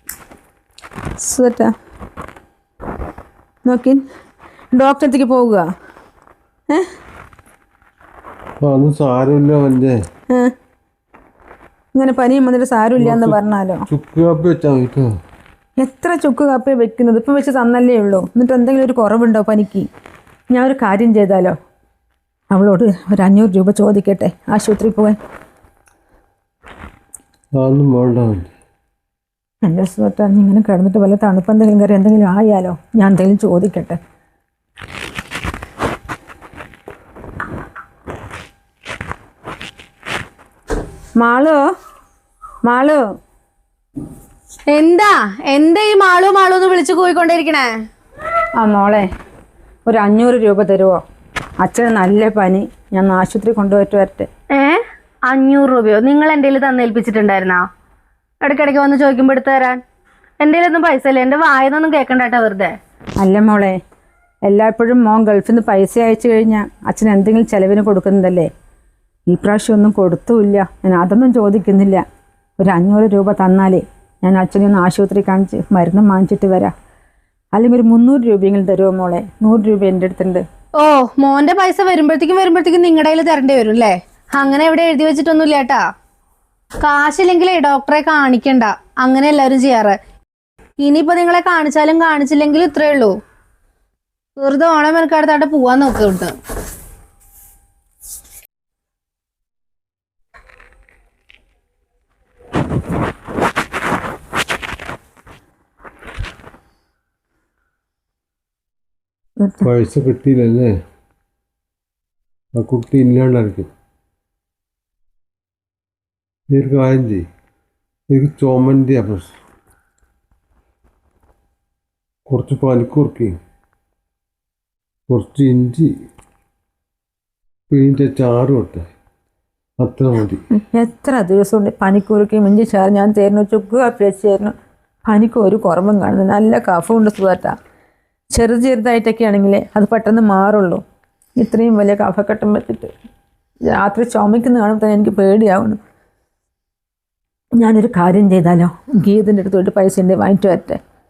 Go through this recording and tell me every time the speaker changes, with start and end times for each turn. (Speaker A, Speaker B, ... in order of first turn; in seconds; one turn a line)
Speaker A: 1.2-1.7
Speaker A: 3.6-4.0
Speaker A: 4.7-5.7
Speaker B: 8.6-10.0
Speaker A: 11.9-13.8
Speaker B: 13.0-13.4
Speaker B: 13.9-15.1
Speaker A: 15.8-19.9
Speaker A: 20.5-21.6
Speaker A: 22.5-25.2
Speaker B: 27.5-28.5
Speaker A: 29.6-34.0
Speaker A: 41.2-41.6
Speaker A: 42.6-43.0
Speaker C: 44.7-47.7
Speaker A: 48.6-49.1
Speaker A: 49.9-51.0
Speaker A: 51.6-54.3
Speaker C: 54.5-57.6
Speaker C: 58.4-59.8
Speaker C: 60.4-62.8
Speaker A: 63.2-63.8
Speaker A: 64.5-68.5
Speaker A: 69.3-72.0
Speaker A: 72.6-76.7
Speaker A: 77.5-80.4
Speaker C: 80.8-85.8
Speaker C: 86.8-90.0
Speaker C: 90.8-93.2
Speaker C: 94.4-96.3
Speaker B: 109.6-110.7
Speaker B: 112.5-113.7
Speaker B: 116.5-117.3
Speaker B: 118.1-119.3
Speaker B: 122.3-123.4
Speaker B: 125.1-125.9
Speaker B: 127.7-128.9
Speaker B: 129.8-130.4
Speaker A: 130.7-134.5
Speaker A: 135.1-137.5
Speaker A: 138.3-140.8
Speaker A: 141.4-142.9
Speaker A: 143.6-145.8
Speaker A: 147.6-150.8